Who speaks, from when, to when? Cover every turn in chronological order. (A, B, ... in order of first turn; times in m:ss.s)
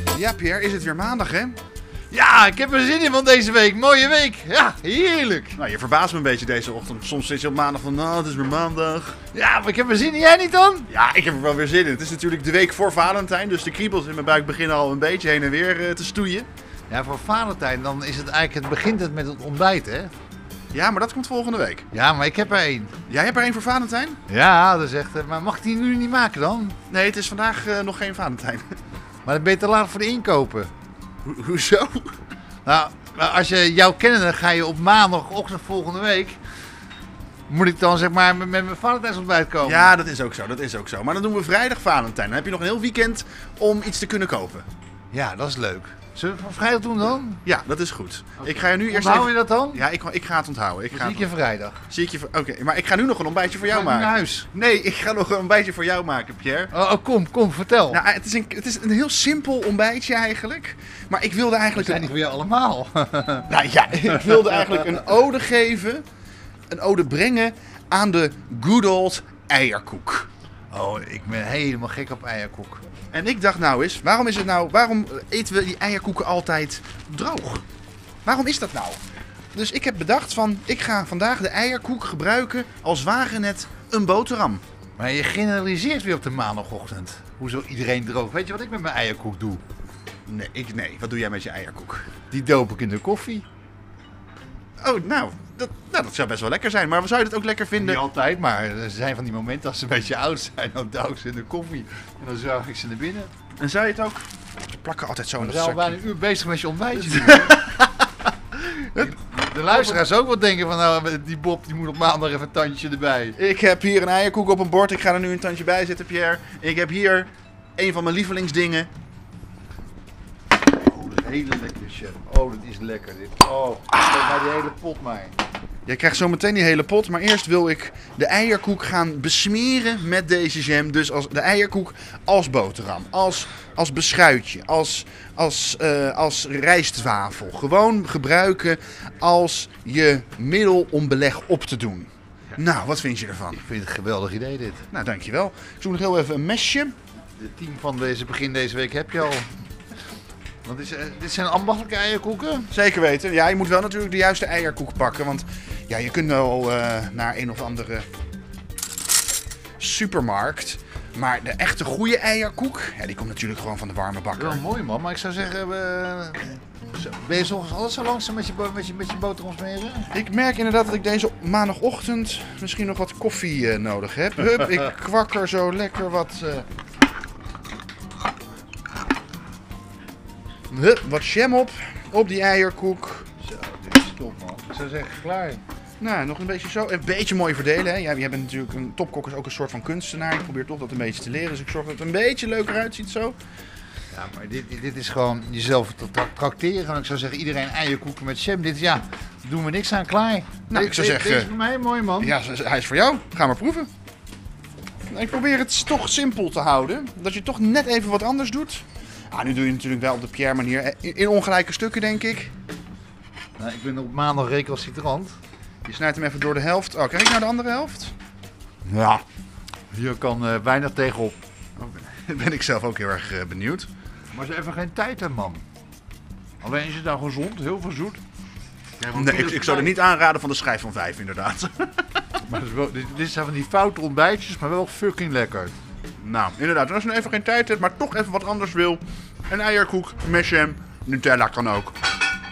0:00.1-0:01.6 A
0:02.1-0:05.6 B
0:05.6-0:09.2 A
0:09.3-0:10.9 B
0:10.9-0:16.5 A
0:16.9-0:20.1 B
0:20.7-0:21.9 A
0:21.9-0:22.9 B
0:23.1-0:24.2 A
0:24.3-0:26.8 B
0:26.9-0:28.6 A
0:29.2-0:30.7 B
0:31.2-0:32.1 A
0:32.6-0:36.4 B
0:37.5-0:39.9 B
0:39.6-0:44.7 A
0:45.1-0:47.4 B
0:47.4-0:51.3 A
0:48.4-0:49.8 B
0:50.9-0:51.8 B
0:51.9-0:56.7 A
0:53.6-0:54.5 B
0:56.7-0:58.0 B
0:57.9-1:02.1 A
1:01.7-1:03.5 B
1:03.5-1:06.0 A
1:04.2-1:04.6 B
1:06.7-1:10.3 A
1:10.7-1:12.8 B
1:13.1-1:17.6 A
1:18.2-1:19.0 A
1:19.5-1:24.6 A
1:25.0-1:29.6 B
1:30.3-1:32.1 A
1:32.3-1:33.4 B
1:34.8-1:38.0 A
1:37.8-1:43.3 B
1:43.6-1:46.0 A
1:45.4-1:47.7 B
1:47.0-1:47.8 A
1:48.9-1:53.4 B
1:49.7-1:50.0 A
1:53.4-1:58.9 A
2:00.8-2:05.4 B
2:05.8-2:23.6 A
2:23.6-2:24.8 B
2:24.9-2:26.9 A
2:27.4-2:29.5 B
2:30.6-2:32.7 B
2:32.7-2:38.1 A
2:39.8-2:44.6 A
2:44.4-2:50.1 B
2:50.1-2:56.6 A
3:00.7-3:03.3 A
3:03.4-3:05.6 B
3:06.0-3:13.4 A
3:14.1-3:22.4 B
3:20.7-3:21.5 A
3:22.2-3:23.9 A
3:25.1-3:32.5 A
3:33.6-3:35.4 B
3:35.8-3:38.1 A
3:38.9-3:39.2 A
3:39.9-3:41.4 B
3:41.8-3:43.9 A
3:44.3-3:45.6 B
3:46.6-3:48.2 B
3:49.0-3:50.0 B
3:49.1-3:52.0 A
3:52.4-3:55.7 B
3:56.2-4:02.0 A